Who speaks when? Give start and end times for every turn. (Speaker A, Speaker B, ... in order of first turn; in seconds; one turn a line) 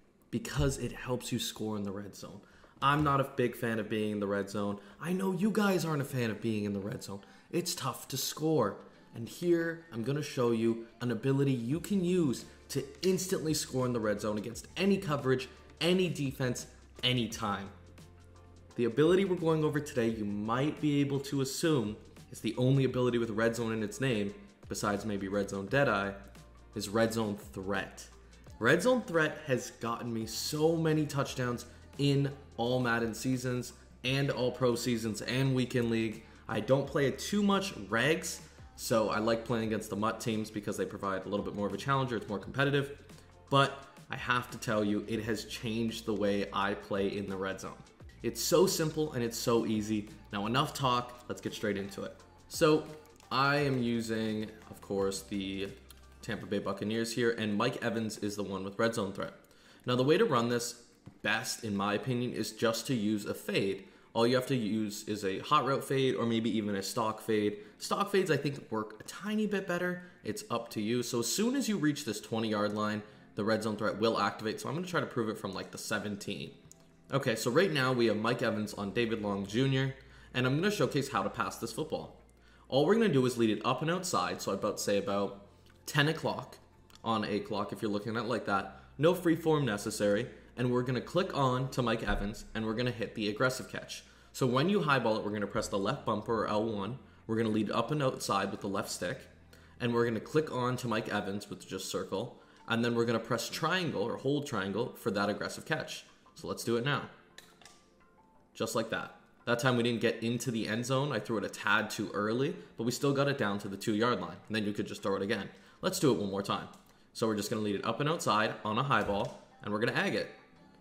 Speaker A: 0.3-17.7
Speaker A: 18.7-26.2
Speaker A: 26.7-43.0
Speaker A: 43.5-76.5
Speaker A: 77.1-82.2
Speaker A: 82.7-107.1
Speaker A: 108.5-120.3